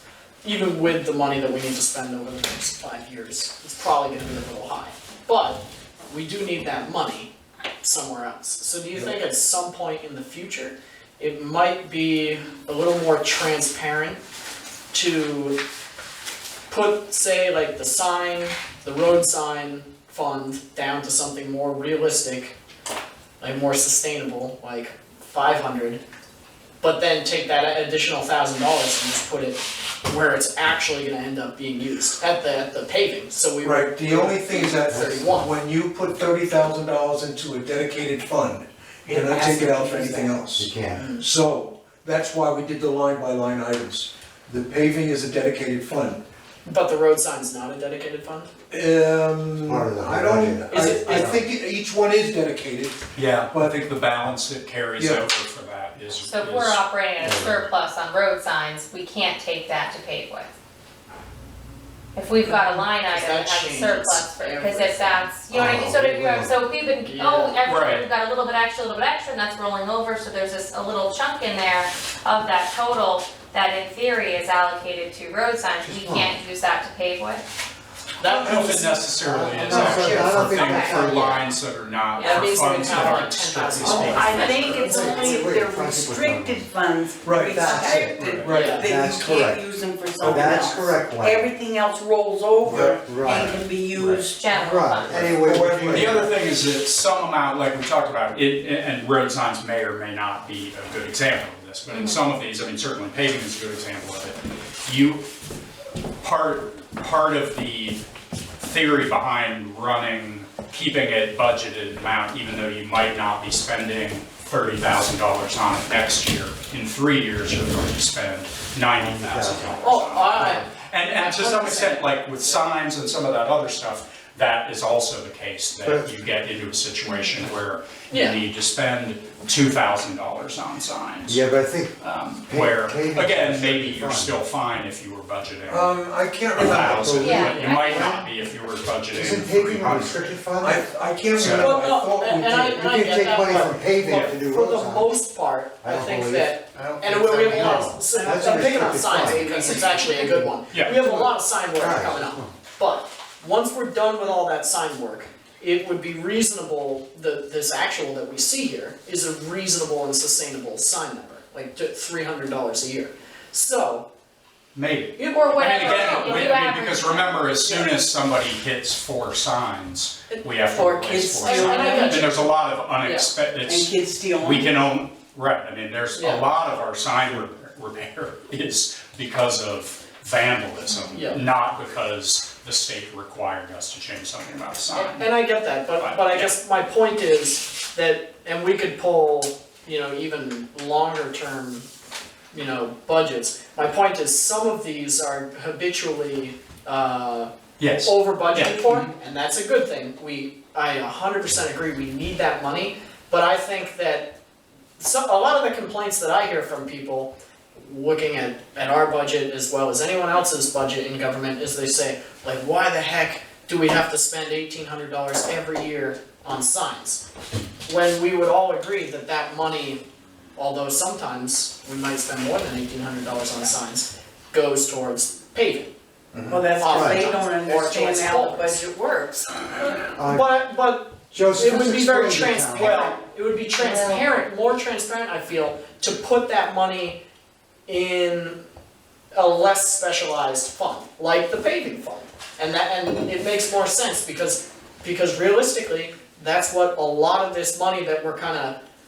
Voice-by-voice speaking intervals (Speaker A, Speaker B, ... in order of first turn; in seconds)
Speaker A: 0.4-14.2, 14.9-15.6, 16.7-22.5, 23.4-26.0, 26.8-35.5, 39.1-40.3, 40.9-41.2, 46.6-48.5, 50.7-51.4, 62.4-65.2, 67.0-67.6, 78.2-80.5, 82.2-85.2, 88.5-88.9, 119.8-122.6, 128.1-128.4, 141.5-164.1, 165.2-166.6, 167.6-167.9, 171.4-173.3, 176.2-176.4, 181.1-181.4, 184.9-191.9, 192.5-197.5, 198.0-204.3, 205.0-217.2, 217.8-220.0, 220.6-225.9, 226.8-228.8, 229.8-237.2, 237.9-238.6, 239.3-248.8
Speaker B: 33.6-46.2, 48.7-53.8, 55.0-55.2, 84.6-85.0, 87.2-88.9, 90.2-90.7, 92.6-93.7, 95.2-96.2, 135.7-137.8, 140.6-143.7, 148.3-149.4, 226.3-226.7
Speaker C: 34.9-35.2, 40.5-41.1, 49.6-51.4, 57.2-57.6, 65.5-66.5, 75.8-76.3, 79.2-81.4, 84.7-86.6, 87.6-89.6, 90.2-91.5, 92.7-93.5, 94.5-96.2, 119.0-119.8, 120.4-120.6, 125.8-126.1, 131.2-131.9, 132.5-134.3, 136.7-138.2, 139.1-140.8, 143.0-145.1, 145.8-152.5, 226.7-227.2, 230.2-230.5, 231.3-233.1, 233.8-234.2
Speaker D: 39.3-39.5, 83.9-94.5, 170.7-172.3, 173.7-174.8, 226.5-229.9
Speaker E: 53.1-56.8, 67.6-68.1, 78.2-84.7, 88.2-88.5, 93.9-94.2, 95.9-105.2, 106.2-108.0, 108.6-135.9, 136.5-140.2, 141.3-141.8, 144.1-144.3, 164.7-186.5, 197.8-199.1
Speaker F: 56.2-60.5, 62.1-77.4, 80.4-81.1, 82.2-83.2, 84.3-85.5, 87.6-88.0, 94.3-95.3, 101.9-102.2, 137.2-138.2, 165.3-167.6